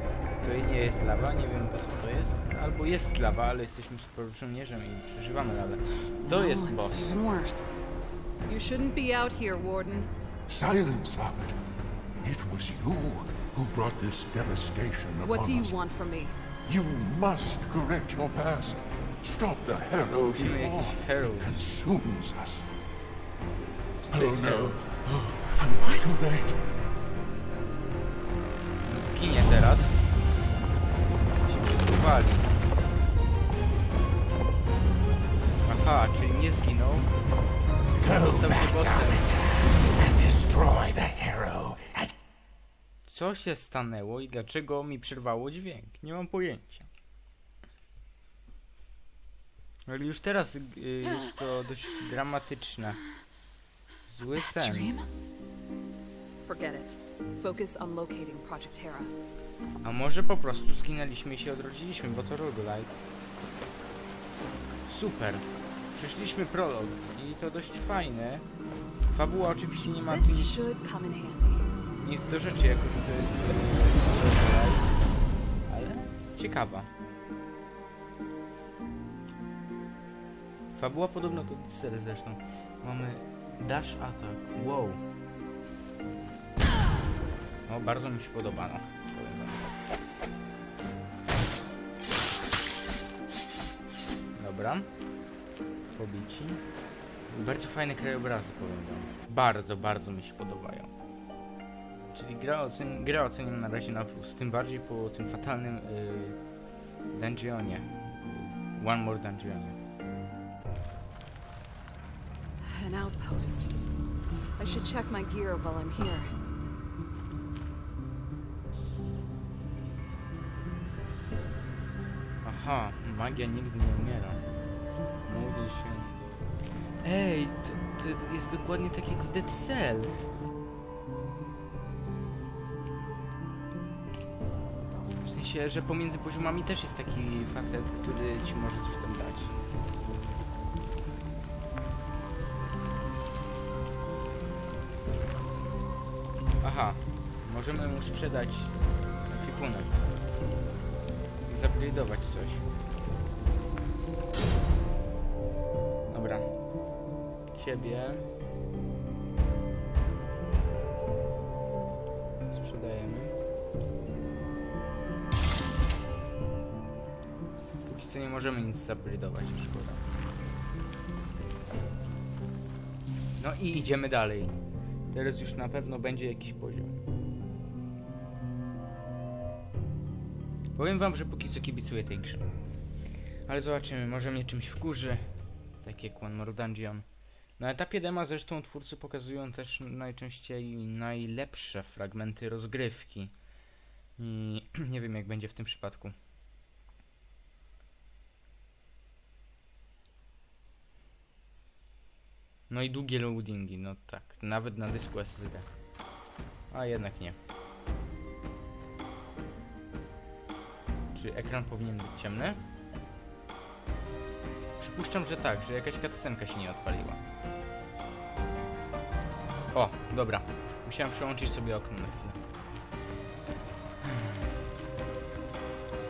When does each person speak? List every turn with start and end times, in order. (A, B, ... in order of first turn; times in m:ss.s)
0:00.4-0:07.2 A
0:06.2-0:07.6 B
0:08.4-0:10.1 B
0:10.5-0:11.6 C
0:12.2-0:15.8 C
0:15.2-0:16.3 B
0:16.6-0:22.7 C
0:20.1-0:21.6 A
0:24.0-0:24.8 A
0:24.1-0:26.6 C
0:25.8-0:26.2 B
0:28.8-0:30.0 A
0:31.4-0:32.5 A
0:35.6-0:37.1 A
0:38.0-0:42.1 C
0:38.1-0:39.3 A
0:43.1-0:46.9 A
0:49.9-0:53.0 A
0:54.1-0:54.9 A
0:54.4-0:55.1 B
0:56.4-0:59.1 B
0:59.8-1:02.9 A
1:04.9-1:08.4 A
1:09.1-1:10.7 A
1:10.1-1:11.7 B
1:12.0-1:14.9 A
1:15.7-1:16.9 A
1:20.7-1:25.0 A
1:27.7-1:29.6 A
1:34.4-1:34.9 A
1:35.9-1:36.6 A
1:37.3-1:40.9 A
1:42.1-1:46.4 A
1:47.1-1:49.8 A
1:52.6-1:53.7 B
1:54.6-1:56.3 B
2:02.4-2:04.4 A
2:05.2-2:06.2 A
2:07.0-2:10.3 A
2:15.2-2:19.5 A
2:26.6-2:28.7 A
2:29.3-2:29.9 A
2:31.5-2:32.6 A
2:36.1-2:36.5 A
2:37.5-2:38.2 A
2:42.5-2:43.3 A
2:47.9-2:50.0 A
2:53.4-2:54.5 A
2:55.1-2:57.0 A
3:00.7-3:02.5 A
3:03.5-3:05.3 A
3:05.8-3:07.0 A
3:07.6-3:13.3 A
3:14.2-3:16.1 A
3:22.7-3:25.7 A
3:26.7-3:27.4 A
3:31.1-3:32.6 A
3:34.8-3:37.2 A
3:39.7-3:42.4 A